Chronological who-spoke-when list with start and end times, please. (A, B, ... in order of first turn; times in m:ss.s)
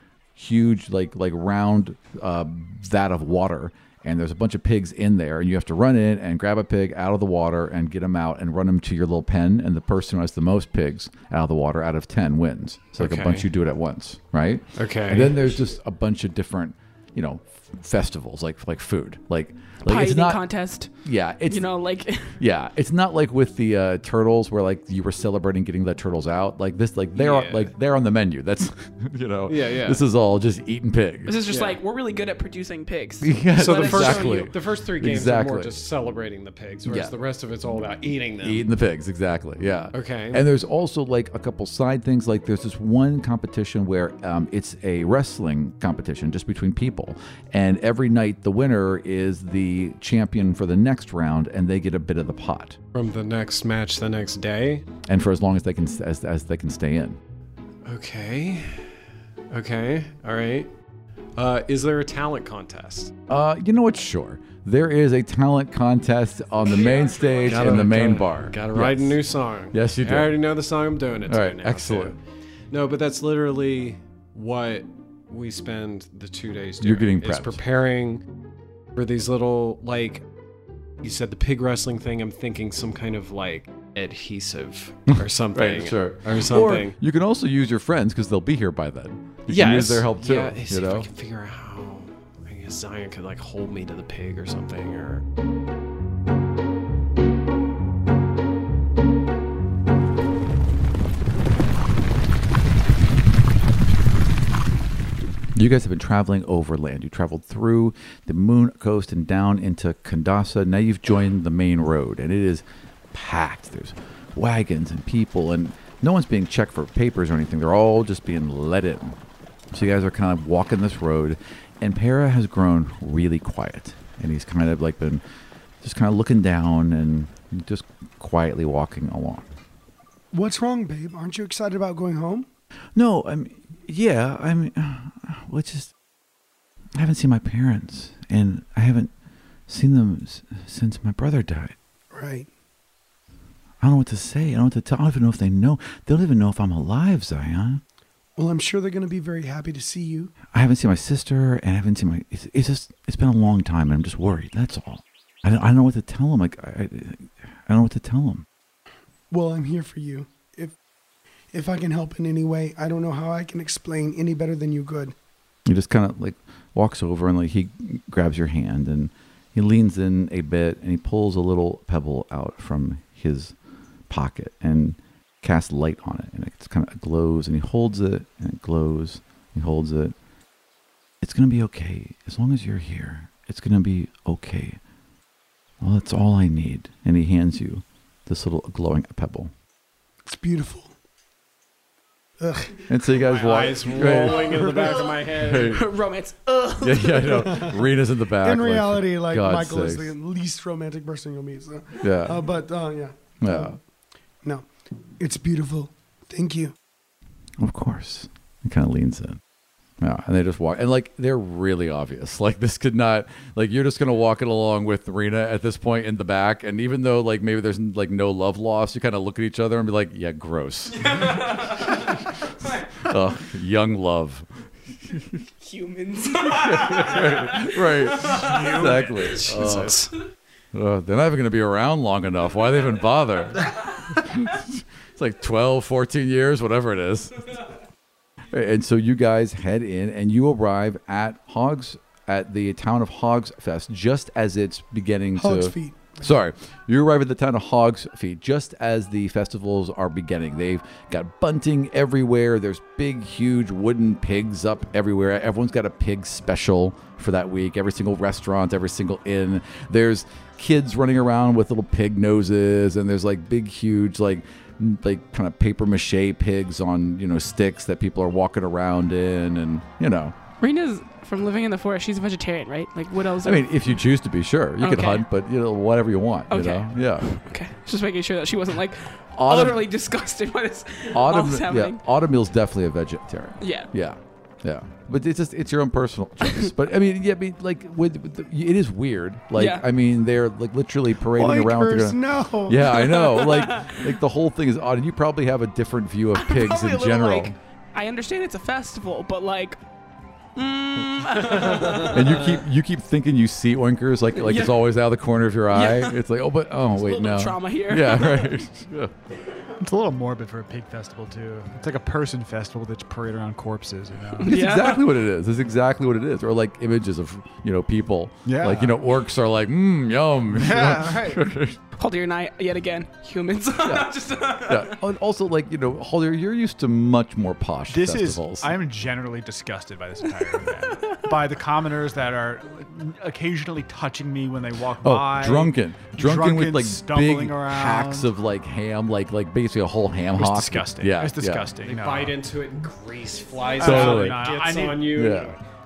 0:00.4-0:20.4 A
0:13.0-0:13.5 B
0:14.8-0:15.5 B
0:19.8-0:20.9 C
0:21.0-0:21.7 A
0:21.4-0:22.4 C
0:22.4-0:31.4 A
0:27.1-0:27.7 B
0:29.5-0:30.0 B
0:31.2-0:34.5 C
0:31.5-0:31.8 B
0:33.2-0:35.7 A
0:33.6-0:38.6 B
0:36.8-0:37.1 A
0:38.4-0:52.8 A
0:39.9-0:40.4 B
0:52.9-0:54.9 B
0:55.0-0:57.2 A
0:57.8-0:58.9 B
0:59.5-1:00.7 B
1:01.4-1:03.1 B
1:03.3-1:10.3 A
1:07.4-1:12.2 B
1:11.3-1:12.1 A
1:12.7-1:18.2 B
1:16.8-1:17.6 A
1:18.9-1:20.2 B
1:21.0-1:27.0 B
1:25.1-1:31.1 A
1:29.5-1:35.2 B
1:45.5-1:59.2 A
1:59.7-2:05.2 A
2:05.8-2:09.5 A
2:10.3-2:12.5 D
2:12.9-2:15.9 A
2:17.0-2:19.1 A
2:19.7-2:21.8 A
2:22.1-2:22.5 D
2:23.8-2:27.8 A
2:28.4-2:30.3 D
2:30.5-2:38.4 A
2:39.3-2:40.7 D
2:41.5-2:45.1 D
2:45.6-2:53.5 A
2:54.1-3:00.2 A
3:01.2-3:04.8 A
3:05.8-3:09.5 A
3:10.2-3:10.9 D
3:12.4-3:12.9 D
3:12.9-3:15.9 A
3:13.2-3:15.7 B
3:14.5-3:15.0 D
3:15.6-3:17.7 C
3:16.8-3:20.1 A
3:17.4-3:17.8 D
3:18.4-3:23.8 D
3:22.0-3:22.4 A
3:23.4-3:23.8 A
3:25.2-3:26.7 D
3:27.6-3:29.4 A
3:30.0-3:44.5 A
3:40.9-3:42.9 C
3:45.1-3:45.4 A
3:45.6-3:49.1 C
3:46.4-3:50.1 A
3:48.3-3:50.2 B
3:50.7-3:57.5 A
3:58.5-4:30.4 A
4:05.4-4:06.3 D
4:30.6-4:34.0 C
4:33.4-4:37.2 A
4:34.8-4:35.2 C
4:36.5-4:42.0 C
4:39.4-4:39.8 A
4:41.1-4:57.5 A
4:43.6-4:43.9 C
4:49.5-4:49.8 C
4:51.2-4:53.0 D
4:52.9-4:54.2 C
4:56.3-4:59.8 C
5:00.6-5:02.6 C
5:02.0-5:09.1 A
5:04.3-5:04.8 C
5:05.7-5:06.2 C
5:06.9-5:08.6 C
5:09.8-5:14.5 E
5:14.4-5:15.1 C
5:14.4-5:21.8 A
5:18.4-5:19.1 E
5:20.5-5:21.4 E
5:22.0-5:25.0 C
5:23.8-5:28.7 A
5:27.9-5:38.3 E
5:30.8-5:31.4 C
5:35.0-5:41.7 A
5:40.4-5:42.4 E
5:41.8-5:45.6 B
5:43.6-5:45.2 E
5:43.8-5:44.4 A
5:45.1-5:45.6 A